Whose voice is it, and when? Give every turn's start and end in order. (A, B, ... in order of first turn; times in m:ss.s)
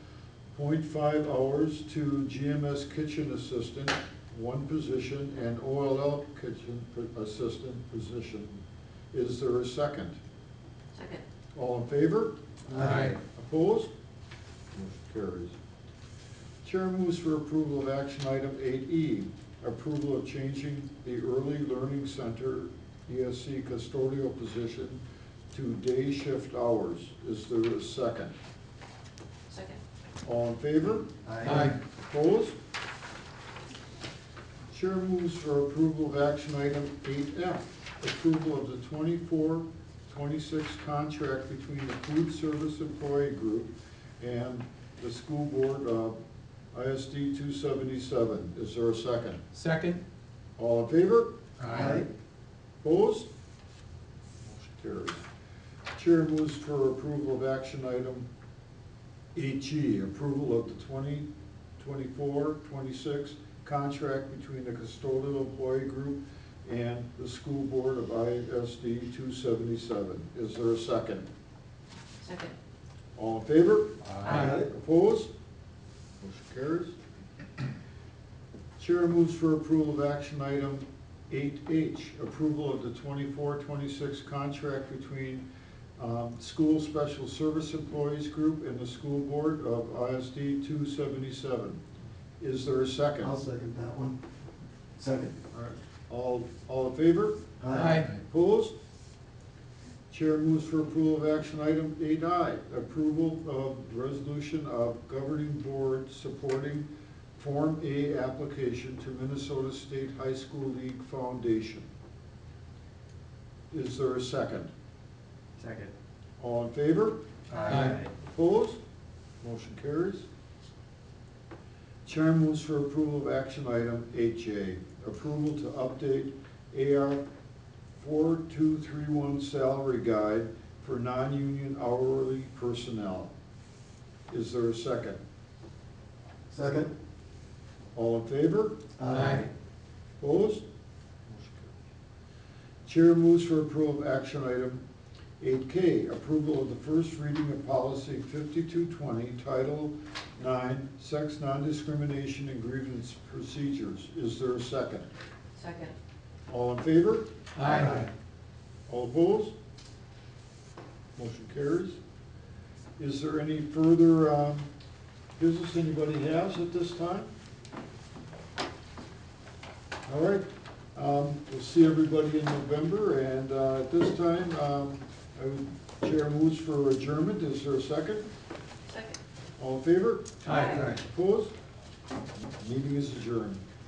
0:00.5-0:08.6 A
0:09.1-0:10.2 A
0:10.9-0:11.2 B
0:11.5-0:13.9 A
0:12.7-0:13.1 C
0:12.8-0:13.1 D
0:14.7-0:15.5 A
0:16.6-0:25.0 A
0:25.5-0:28.3 A
0:29.5-0:29.8 B
0:30.2-0:32.6 A
0:31.2-0:31.7 C
0:31.4-0:31.7 D
0:34.7-0:46.2 A
0:46.7-0:49.4 A
0:49.5-0:50.0 D
0:50.6-0:51.3 A
0:51.6-0:52.0 D
0:51.7-0:52.1 C
0:52.8-0:53.3 A
0:54.4-0:55.2 A
0:55.9-0:58.3 A
0:59.3-1:01.3 A
1:01.8-1:11.2 A
1:12.2-1:12.5 B
1:13.2-1:15.3 A
1:14.0-1:14.5 D
1:14.2-1:14.7 C
1:16.2-1:16.9 A
1:18.8-1:25.4 A
1:26.0-1:31.8 A
1:32.4-1:33.3 A
1:33.2-1:34.2 C
1:35.0-1:35.4 C
1:35.5-1:38.7 A
1:37.6-1:38.1 C
1:37.7-1:38.1 D
1:40.1-1:51.9 A
1:53.7-1:54.7 A
1:55.6-1:55.9 C
1:56.4-1:58.8 A
1:57.5-1:58.1 C
1:57.6-1:58.0 D
1:59.4-2:00.3 A
2:02.0-2:07.2 A
2:08.0-2:13.3 A
2:14.3-2:15.2 A
2:16.5-2:16.9 C
2:17.9-2:18.8 A
2:19.0-2:19.5 C
2:19.1-2:19.5 D
2:20.2-2:20.6 A
2:21.3-2:21.7 A
2:22.8-2:24.8 A
2:25.4-2:35.1 A
2:35.6-2:35.9 B
2:36.5-2:37.9 A
2:37.6-2:38.1 D
2:38.9-2:39.5 A
2:41.2-2:42.0 A
2:43.0-2:44.7 A
2:45.4-2:47.3 A
2:50.0-2:58.2 A
2:58.9-2:59.2 B
2:59.6-3:01.5 A
3:00.4-3:01.0 D
3:00.5-3:00.9 B
3:02.5-3:03.6 A